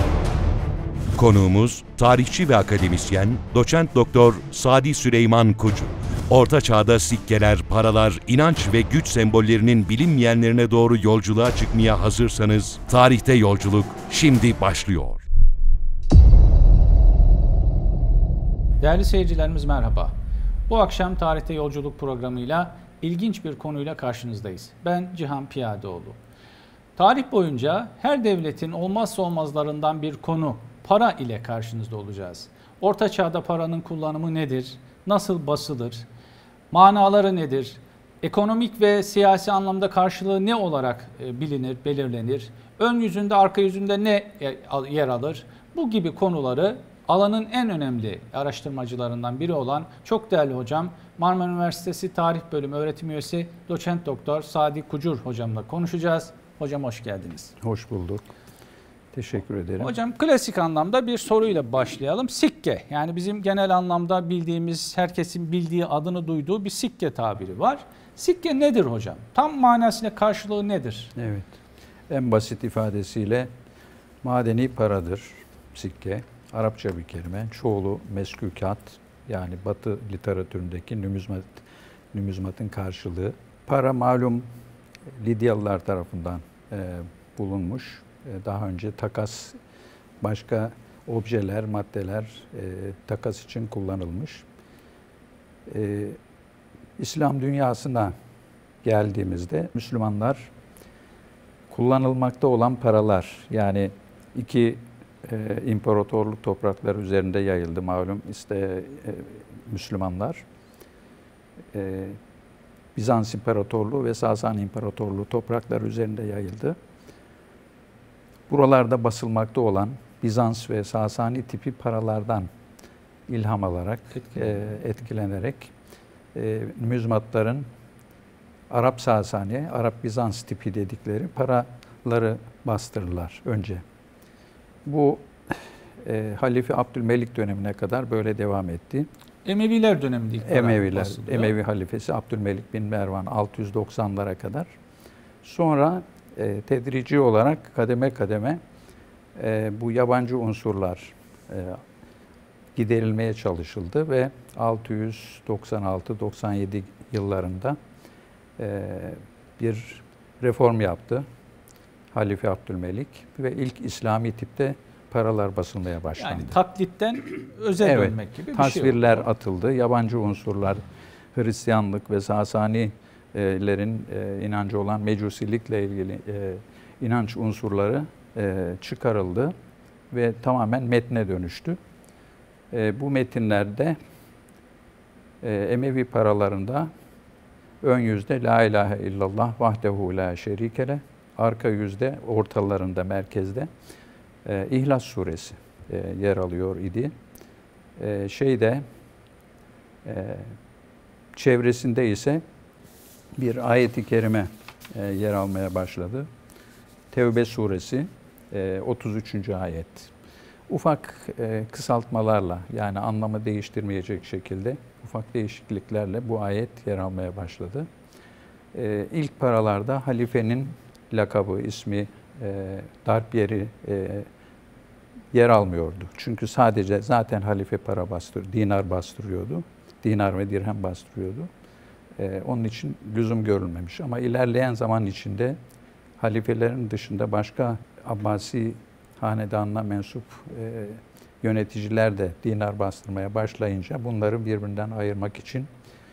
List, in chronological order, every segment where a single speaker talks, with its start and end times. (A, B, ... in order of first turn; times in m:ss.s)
0:01.1-0:15.2 A
0:18.8-0:20.1 B
0:20.7-0:26.2 B
0:27.0-0:36.1 B
0:36.7-0:57.6 B
0:57.6-0:58.3 C
0:59.1-0:59.9 C
0:59.8-1:11.1 B
1:11.2-1:11.5 C
1:12.1-1:13.5 C
1:14.2-1:24.5 C
1:25.1-1:29.6 C
1:30.2-1:34.5 C
1:35.7-1:36.2 C
1:37.0-1:38.1 C
1:38.8-1:40.5 C
1:41.7-1:50.4 C
1:51.7-1:52.2 C
1:53.0-1:56.8 C
1:58.5-2:02.5 C
2:03.3-2:05.7 C
2:04.2-2:04.6 B
2:06.3-2:07.7 C
2:08.7-2:13.8 C
2:14.8-2:19.1 C
2:19.4-2:21.5 B
2:20.4-2:24.7 C
2:25.4-2:28.6 C
2:29.4-2:31.8 C
2:32.8-2:37.8 C
2:38.6-2:41.3 C
2:42.1-2:46.6 C
2:46.2-2:49.2 B
2:47.8-2:59.5 C
3:00.1-3:01.8 C
3:02.7-3:04.0 C
3:05.4-3:06.9 C
3:07.8-3:13.7 C
3:14.4-3:17.1 C
3:18.0-3:18.8 C
3:20.0-3:20.6 C
3:21.4-3:22.4 C
3:23.4-3:26.3 C
3:27.1-3:30.1 C
3:30.7-3:37.9 C
3:38.7-3:44.3 C
3:45.3-3:51.5 C
3:52.2-3:55.6 C
3:56.2-4:05.7 C